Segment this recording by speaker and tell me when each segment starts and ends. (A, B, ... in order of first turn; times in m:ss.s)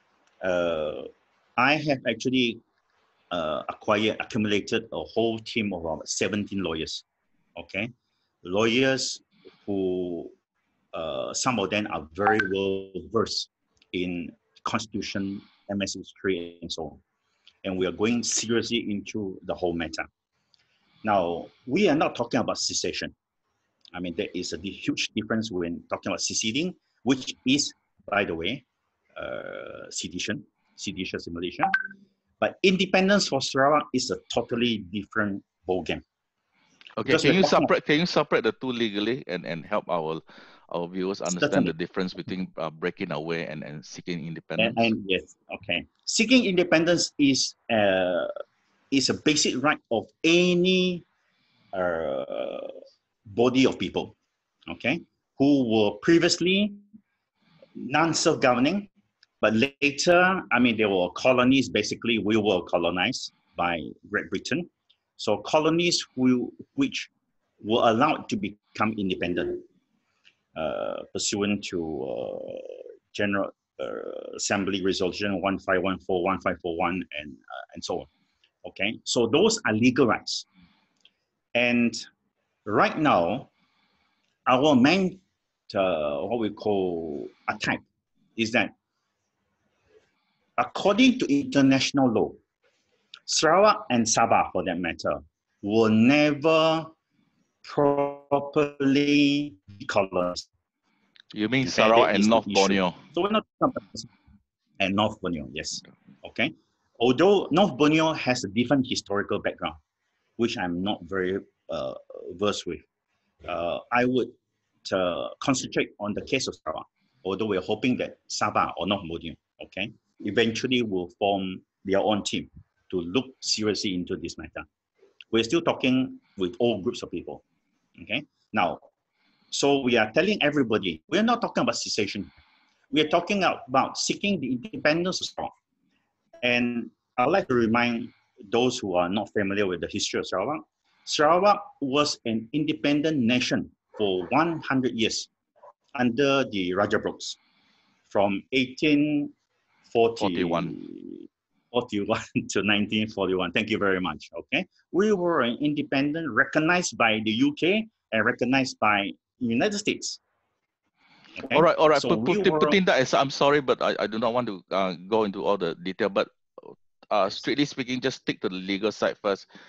0:00.4-0:02.6 A
0:03.3-0:07.0 A
0:07.6-0:07.9 A
0:08.4-0:10.3 A
0:10.9-0:17.0 A
0:17.6-0:20.1 A
0:21.0-0:23.1 A
0:23.9-0:28.6 A
0:29.2-0:31.7 A
0:32.4-0:36.0 A
0:37.0-0:44.9 B
0:37.1-0:37.7 A
0:41.3-0:41.7 A
0:44.6-0:48.3 A
0:48.9-0:51.0 A
0:51.7-0:54.2 A
0:54.7-0:56.8 A
0:57.8-0:58.9 A
0:59.4-1:09.6 A
1:10.6-1:18.1 A
1:18.6-1:20.5 A
1:21.6-1:22.0 A
1:22.6-1:23.5 A
1:24.5-1:27.8 A
1:28.4-1:28.7 A
1:30.6-1:32.4 A
1:33.3-1:36.9 A
1:37.6-1:40.5 A
1:41.3-1:43.0 B
1:41.6-1:44.1 A
1:44.8-1:49.8 A
1:50.4-1:52.8 A
1:53.4-1:54.3 A
1:54.8-2:04.7 A
2:05.3-2:07.4 A
2:08.0-2:08.8 A
2:09.5-2:12.3 A
2:12.9-2:15.5 A
2:16.4-2:25.3 A
2:26.0-2:27.4 A
2:28.1-2:29.3 A
2:29.9-2:40.2 A
2:30.2-2:30.8 B
2:41.4-2:42.8 A
2:41.5-2:49.4 B